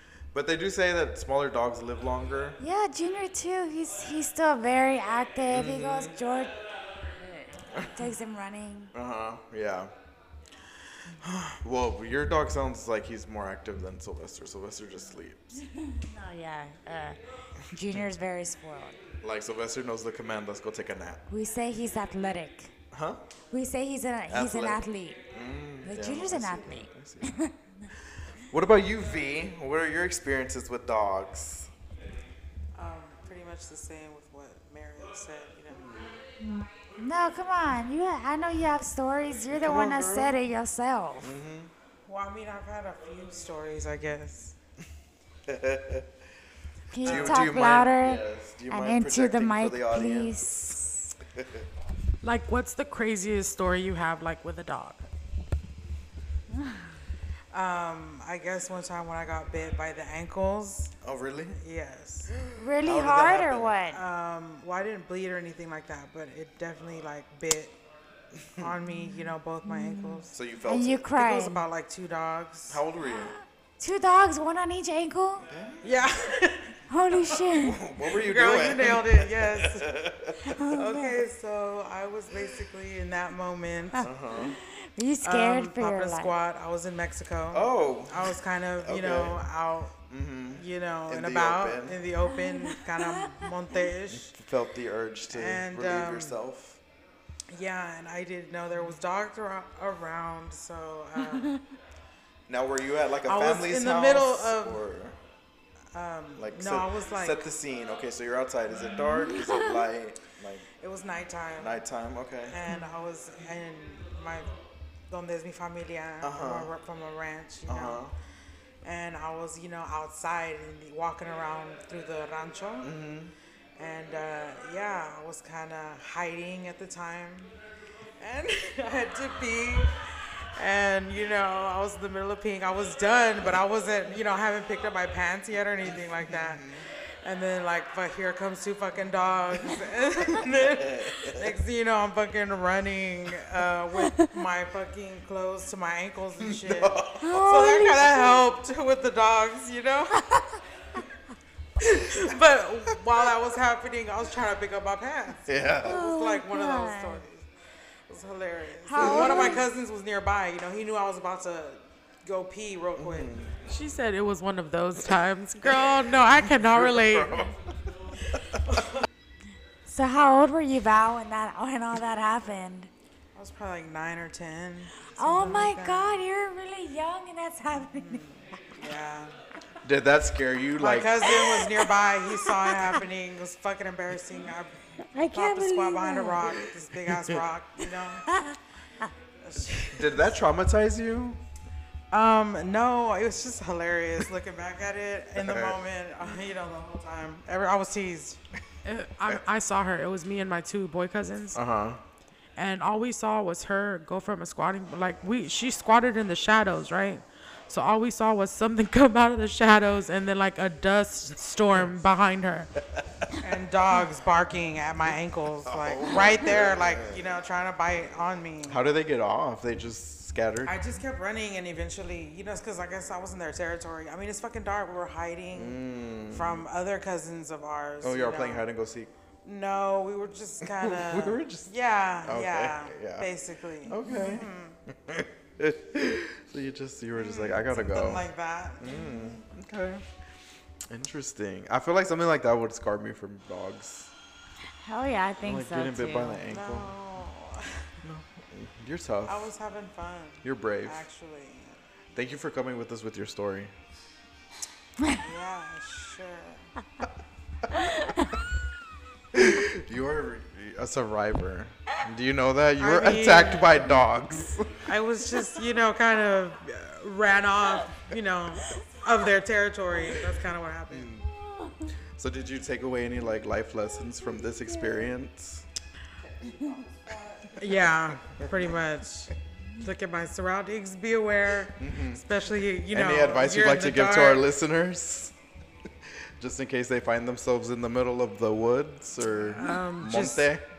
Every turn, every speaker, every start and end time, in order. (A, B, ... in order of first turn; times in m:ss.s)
0:00.3-0:02.6 A
0:02.6-0:06.6 B
0:05.5-0:06.2 A
0:07.2-0:08.9 B
0:07.7-0:08.1 A
0:08.9-0:09.9 A
0:11.1-0:15.6 A
0:15.8-0:19.0 B
0:19.2-0:21.2 A
0:21.3-0:22.7 B
0:22.9-0:23.2 A
0:23.5-0:25.2 B
0:24.3-0:27.4 A
0:25.8-0:27.6 B
0:28.5-0:31.7 A
0:32.7-0:35.8 C
0:35.7-0:36.2 A
0:36.4-0:41.4 B
0:39.5-0:40.4 A
0:41.2-0:41.7 A
0:42.0-0:44.6 C
0:45.4-0:46.2 A
0:46.9-0:51.1 B
0:47.0-0:50.4 A
0:47.0-0:47.4 C
0:51.3-0:51.6 A
0:52.2-0:55.0 D
0:56.5-0:56.8 B
0:57.5-1:01.0 C
1:01.0-1:01.6 A
1:01.6-1:02.4 C
1:02.5-1:04.0 B
1:02.7-1:03.8 A
1:03.9-1:07.8 C
1:08.4-1:08.7 A
1:08.6-1:10.3 C
1:08.9-1:11.6 B
1:10.3-1:11.1 A
1:11.1-1:12.8 C
1:12.7-1:13.4 A
1:13.0-1:15.4 B
1:15.4-1:15.8 A
1:15.8-1:17.4 C
1:16.9-1:17.8 B
1:17.5-1:20.6 A
1:18.0-1:19.9 C
1:20.4-1:21.2 B
1:20.7-1:24.1 C
1:23.9-1:26.3 B
1:24.0-1:24.6 A
1:25.2-1:30.0 C
1:27.5-1:29.4 A
1:30.1-1:32.0 A
1:30.5-1:34.3 C
1:32.2-1:33.5 B
1:34.1-1:36.8 A
1:35.3-1:36.4 C
1:37.5-1:41.6 C
1:42.5-1:45.2 A
1:43.2-1:44.8 C
1:45.9-1:47.4 C
1:46.4-1:50.6 A
1:49.1-1:49.8 B
1:50.8-1:51.8 C
1:51.6-1:52.6 A
1:52.5-1:54.5 C
1:55.1-1:58.0 C
1:56.2-1:56.7 A
1:57.7-1:58.1 A
1:58.8-2:02.9 C
2:02.8-2:03.3 A
2:03.8-2:07.5 C
2:08.2-2:16.7 C
2:16.2-2:16.8 A
2:17.2-2:30.3 C
2:20.3-2:21.5 A
2:26.4-2:27.3 A
2:27.2-2:28.4 B
2:31.8-2:37.4 C
2:35.5-2:36.0 A
2:35.8-2:37.2 B
2:38.1-2:43.3 C
2:38.8-2:39.6 B
2:39.0-2:39.6 A
2:43.0-2:43.5 A
2:43.6-2:47.5 D
2:46.4-2:47.7 A
2:48.3-2:48.8 A
2:49.8-2:52.9 B
2:53.3-2:56.2 C
2:55.1-2:58.2 B
2:57.8-2:59.3 C
2:59.8-3:01.3 A
3:00.8-3:04.8 C
3:01.3-3:03.0 B
3:05.1-3:06.6 B
3:05.3-3:08.3 C
3:07.1-3:07.4 A
3:08.3-3:09.1 B
3:09.4-3:10.3 C
3:09.6-3:11.4 A
3:12.1-3:18.4 C
3:15.4-3:15.8 A
3:18.8-3:21.6 D
3:21.5-3:22.0 A
3:22.6-3:32.7 D
3:33.4-3:38.8 C
3:35.6-3:37.2 A
3:38.6-3:40.8 A
3:40.6-3:48.6 C
3:45.5-3:46.6 A
3:48.0-3:49.1 A
3:49.4-3:54.8 C
3:50.6-3:51.7 A
3:52.2-3:53.3 A
3:53.8-3:58.3 A
3:57.2-3:59.3 C
3:58.8-4:00.0 A
4:00.9-4:04.1 A
4:04.8-4:06.4 B
4:05.4-4:07.0 A
4:06.5-4:07.9 C
4:08.0-4:09.5 A
4:09.2-4:11.8 C
4:10.4-4:11.0 A
4:12.1-4:13.7 A
4:15.2-4:16.7 C
4:17.7-4:18.3 B
4:19.3-4:24.8 A
4:22.8-4:23.8 C
4:24.8-4:31.1 C
4:30.9-4:31.3 A
4:31.4-4:31.9 B
4:32.1-4:35.7 A
4:36.4-4:36.8 B
4:37.6-4:44.5 C
4:38.2-4:38.7 A
4:41.8-4:42.2 A
4:42.9-4:45.3 A
4:46.4-4:50.6 A
4:49.3-4:50.5 C